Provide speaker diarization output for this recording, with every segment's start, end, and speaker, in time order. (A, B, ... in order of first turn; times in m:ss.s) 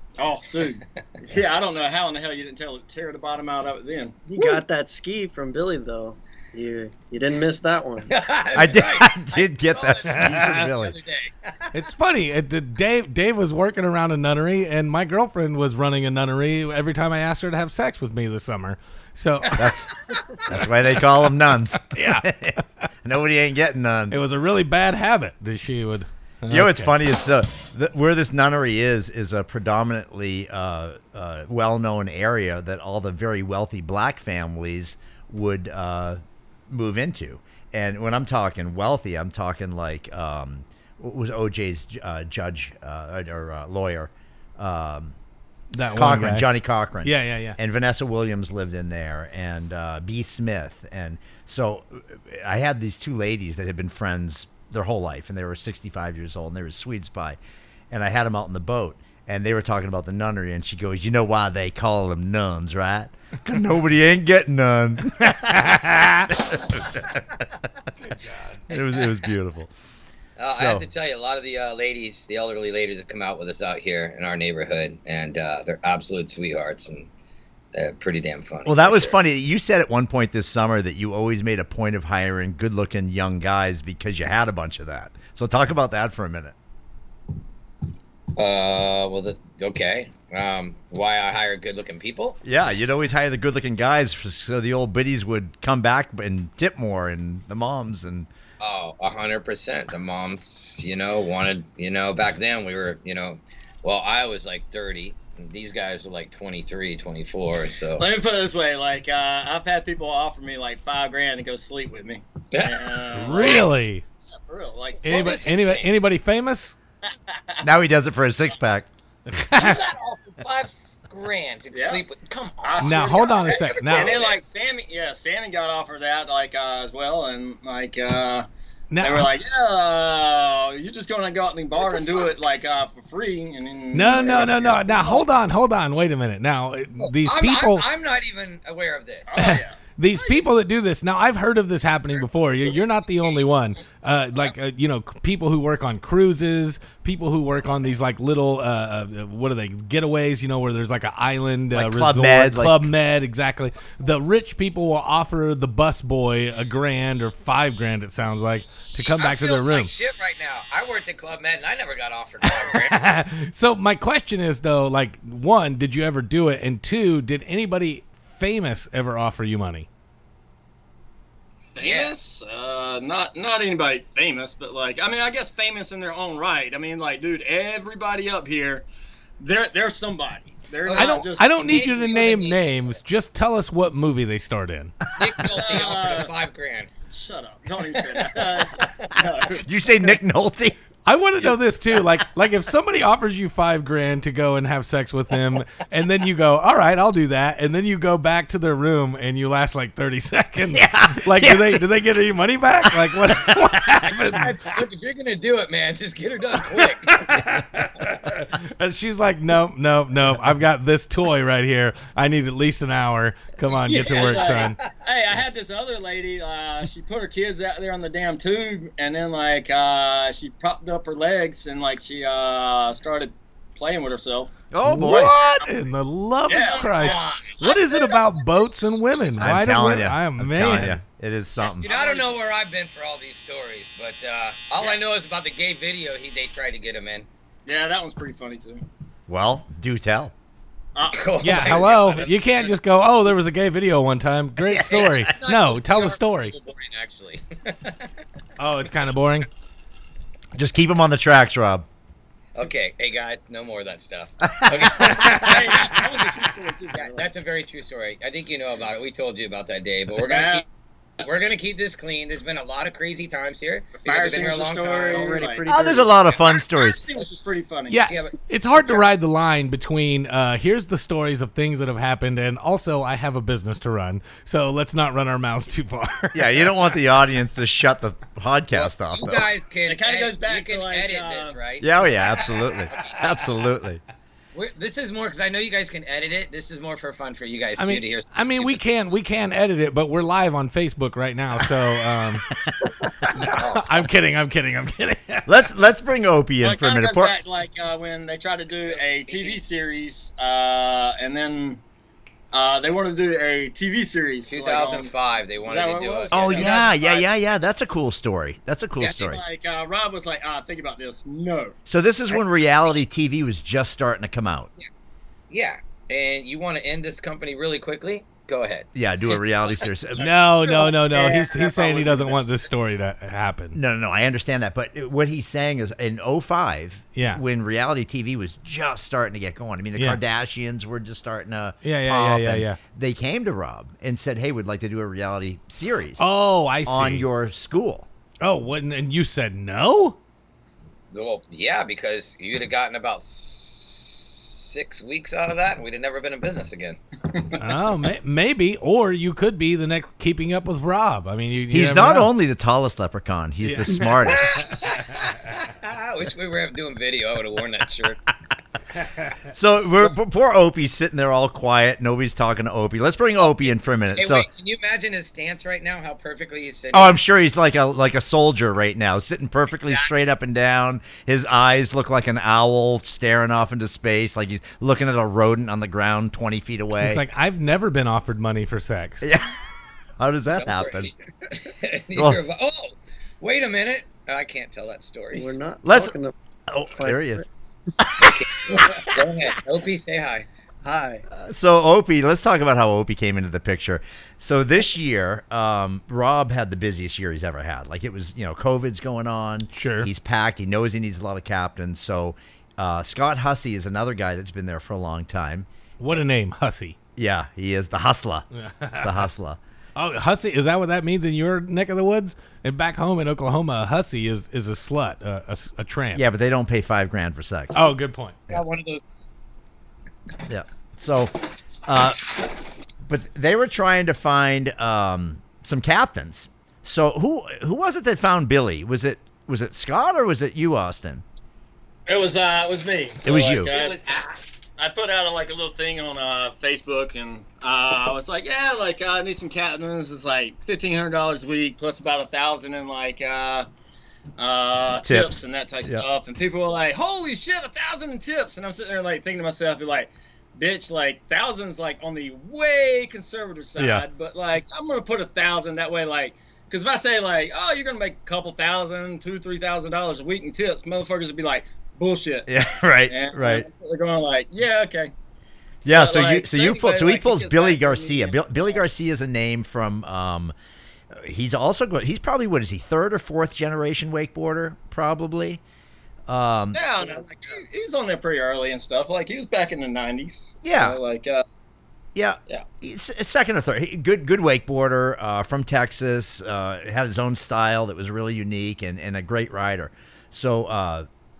0:00.2-0:04.2 A
0:04.3-0:08.1 B
0:08.1-0:11.7 C
0:08.5-0:11.0 D
0:10.1-0:10.6 E
0:11.7-0:19.7 E
0:19.5-0:24.2 D
0:21.9-0:22.3 E
0:24.1-0:26.9 E
0:26.5-0:45.2 D
0:45.7-0:46.5 E
0:45.9-0:57.4 D
0:47.0-0:47.6 E
0:57.9-1:07.4 D
1:05.5-1:06.3 E
1:08.0-1:08.6 E
1:08.7-1:09.7 D
1:10.4-1:17.1 C
1:10.5-1:10.8 D
1:17.7-1:19.2 C
1:18.6-1:26.5 D
1:28.4-1:32.4 C
1:32.4-1:38.3 D
1:38.6-1:48.1 C
1:48.0-1:53.8 A
1:52.5-1:53.7 C
1:53.1-1:54.0 E
1:54.4-1:55.5 A
1:55.0-1:56.7 E
1:55.0-1:55.9 C
1:57.6-1:58.9 D
1:59.3-1:59.8 E
1:59.5-2:04.4 C
2:01.7-2:02.0 A
2:02.6-2:08.4 A
2:02.8-2:04.2 E
2:08.9-2:09.3 E
2:09.0-2:15.3 A
2:11.9-2:12.2 C
2:13.9-2:17.8 E
2:14.2-2:14.6 C
2:17.0-2:19.4 C
2:19.3-2:20.5 A
2:19.4-2:39.9 E
2:31.7-2:32.9 D
2:38.8-2:43.0 C
2:42.6-2:49.9 E
2:51.7-2:58.8 A
2:51.8-2:52.1 C
2:59.4-3:02.2 A
3:00.8-3:02.6 C
3:00.9-3:05.0 E
3:05.2-3:06.9 C
3:05.6-3:06.3 A
3:07.1-3:09.6 A
3:08.4-3:09.1 C
3:09.5-3:10.8 D
3:11.0-3:24.6 E
3:20.7-3:21.8 D
3:22.8-3:23.8 D
3:24.1-3:27.2 C
3:27.1-3:34.8 E
3:33.7-3:44.6 A
3:34.0-3:34.7 C
3:44.7-3:45.6 D
3:44.8-3:51.0 E
3:46.5-3:47.2 A
3:46.6-3:48.7 C
3:49.4-3:51.9 D
3:51.6-3:57.3 C
3:51.8-3:52.3 A
3:57.6-3:58.8 A
3:59.3-4:00.3 D
4:00.9-4:02.7 A
4:01.1-4:02.7 C
4:01.4-4:06.5 E
4:04.7-4:08.1 C
4:08.6-4:09.5 E
4:10.5-4:11.8 D
4:12.5-4:16.0 C
4:14.5-4:14.8 D
4:15.1-4:17.3 A
4:16.9-4:20.6 C
4:20.2-4:20.6 A
4:21.2-4:25.4 C
4:24.0-4:25.7 A
4:25.0-4:26.1 B
4:25.7-4:27.0 D
4:26.4-4:28.0 A
4:27.9-4:36.7 E
4:28.1-4:29.0 C
4:36.3-4:39.5 D
4:38.7-4:43.2 C
4:39.8-4:41.6 A
4:41.8-4:44.0 D
4:44.5-4:49.3 C
4:47.8-4:52.4 E
4:53.3-4:54.0 C
4:53.3-4:55.5 E
4:55.5-4:57.3 D
4:56.6-5:01.8 A
4:58.9-4:59.6 C
5:02.5-5:05.1 A
5:04.5-5:06.8 C
5:05.6-5:07.2 A
5:06.3-5:09.4 D
5:09.0-5:11.8 A
5:11.8-5:14.7 D
5:15.5-5:18.9 C
5:18.9-5:20.3 D
5:20.2-5:23.8 E
5:20.4-5:22.4 A
5:23.7-5:36.3 D
5:27.2-5:27.4 E
5:31.8-5:32.8 E
5:36.2-5:37.2 E
5:36.8-5:38.1 D
5:38.4-5:40.2 E
5:41.1-5:47.0 C
5:47.6-5:52.3 E
5:51.7-5:54.7 D
5:53.6-5:54.8 E
5:54.2-5:58.2 C
5:59.5-6:04.5 D
6:04.1-6:07.2 C
6:06.9-6:17.2 D
6:09.8-6:10.1 C
6:17.0-6:19.3 E
6:19.2-6:19.5 D
6:20.2-6:21.1 D
6:20.6-6:25.5 C
6:25.3-6:26.3 B
6:25.8-6:26.1 D
6:26.7-6:27.4 D
6:26.9-6:28.0 B
6:28.0-6:29.1 D
6:28.2-6:30.5 C
6:30.8-6:31.2 B
6:31.3-6:45.7 D
6:39.7-6:40.1 E
6:46.0-6:47.0 E
6:47.2-6:48.5 D
6:48.5-6:49.3 E
6:49.0-6:49.6 D
6:50.0-6:56.2 E
6:56.1-6:57.9 D
6:57.7-6:58.4 E
6:58.5-6:59.2 C
7:00.4-7:02.5 D
7:03.0-7:11.2 D
7:12.1-7:14.0 A
7:13.2-7:13.7 D
7:13.6-7:14.4 C
7:14.8-7:23.7 A
7:24.4-7:42.5 A
7:25.0-7:26.0 D
7:33.8-7:34.0 D
7:42.5-7:43.6 D
7:43.1-7:45.1 A
7:45.8-7:50.5 D
7:45.9-7:48.8 A
7:51.1-7:55.6 D
7:56.3-7:56.8 D
7:56.7-8:01.4 A
8:00.6-8:01.0 D
8:02.1-8:11.1 D